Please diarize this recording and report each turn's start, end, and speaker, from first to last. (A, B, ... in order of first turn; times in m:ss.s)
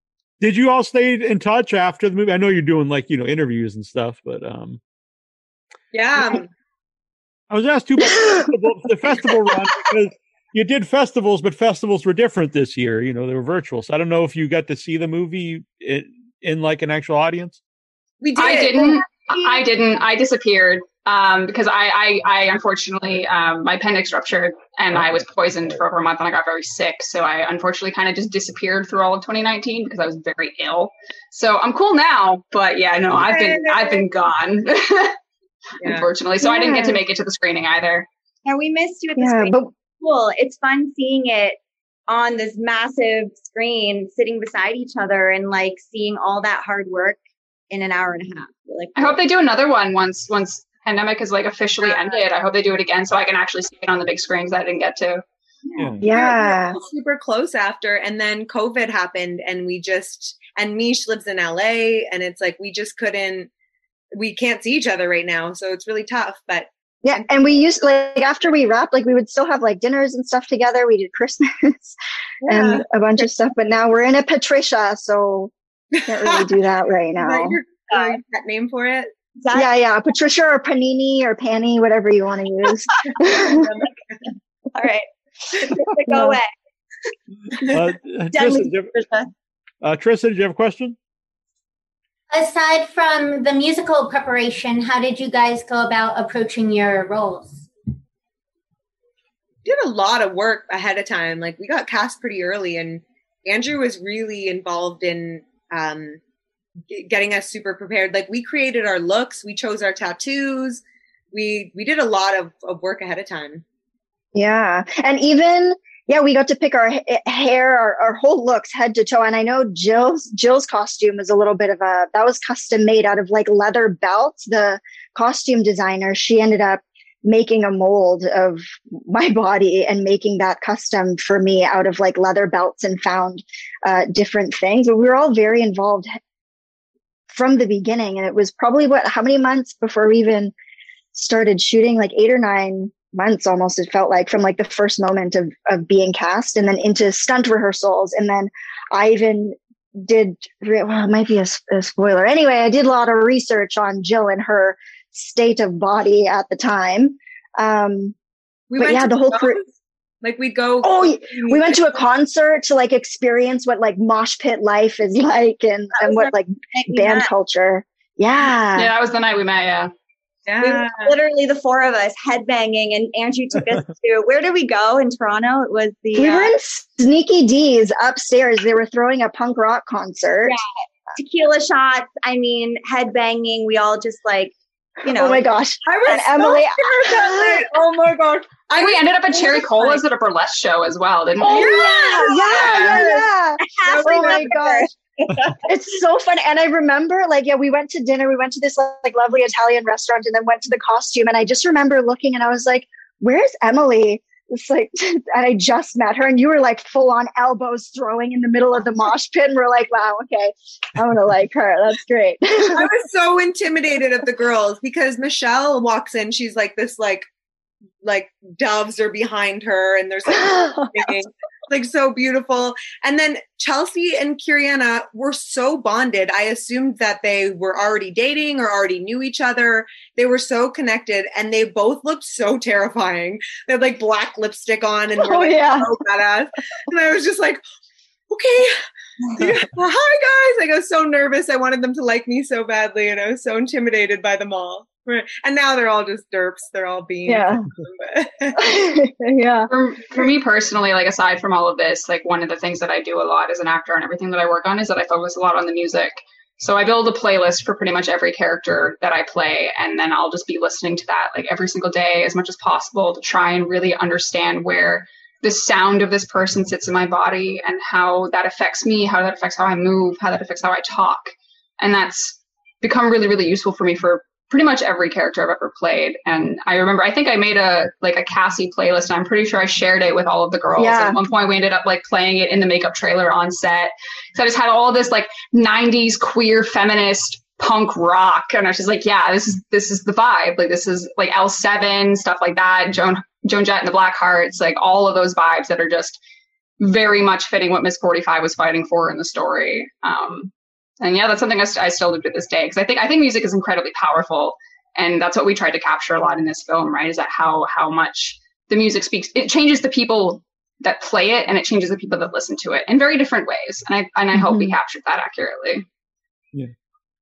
0:00.4-0:04.8 A
0:05.9-0:06.5 B
0:07.5-0:17.6 A
0:18.2-0:19.6 B
0:18.4-0:35.2 C
0:33.2-0:34.0 B
0:35.8-0:36.1 B
0:35.8-0:38.1 C
0:36.4-0:37.0 D
0:38.4-0:47.2 E
0:39.2-0:39.7 D
0:47.7-0:49.2 E
0:49.0-0:55.2 C
0:55.8-0:56.1 A
0:55.8-1:03.5 B
0:56.0-0:56.8 D
1:04.1-1:06.7 B
1:07.0-1:15.5 D
1:12.4-1:12.8 B
1:16.0-1:16.5 B
1:16.0-1:17.6 D
1:17.2-1:19.1 B
1:17.9-1:18.2 E
1:19.4-1:19.7 E
1:19.5-1:23.7 D
1:23.2-1:23.9 B
1:24.7-1:26.5 E
1:27.7-1:28.9 A
1:28.3-1:29.3 E
1:29.8-1:31.0 A
1:32.4-1:37.5 F
1:39.6-1:46.2 B
1:46.9-1:53.6 B
1:54.3-2:16.2 D
2:17.3-2:20.5 D
2:21.1-2:38.1 D
2:38.7-2:39.6 B
2:38.8-2:39.6 D
2:40.2-2:41.8 B
2:40.8-2:48.9 D
2:46.0-2:47.3 E
2:48.7-2:49.9 C
2:50.5-2:51.1 B
2:50.6-2:56.5 E
2:56.1-3:00.6 D
3:01.2-3:05.4 E
3:05.1-3:07.7 D
3:05.8-3:10.0 B
3:08.8-3:13.1 C
3:11.4-3:14.9 D
3:11.5-3:13.0 B
3:11.5-3:15.6 E
3:13.9-3:14.6 B
3:15.6-3:32.9 D
3:32.7-3:37.3 B
3:38.0-3:57.6 B
3:40.3-3:41.1 D
3:55.2-3:55.9 D
3:58.3-3:58.8 B
3:59.4-4:08.6 B
4:07.2-4:07.6 D
4:08.5-4:09.7 D
4:09.7-4:56.2 C
4:40.8-4:41.2 D
4:56.8-5:15.8 C
5:14.3-5:14.8 D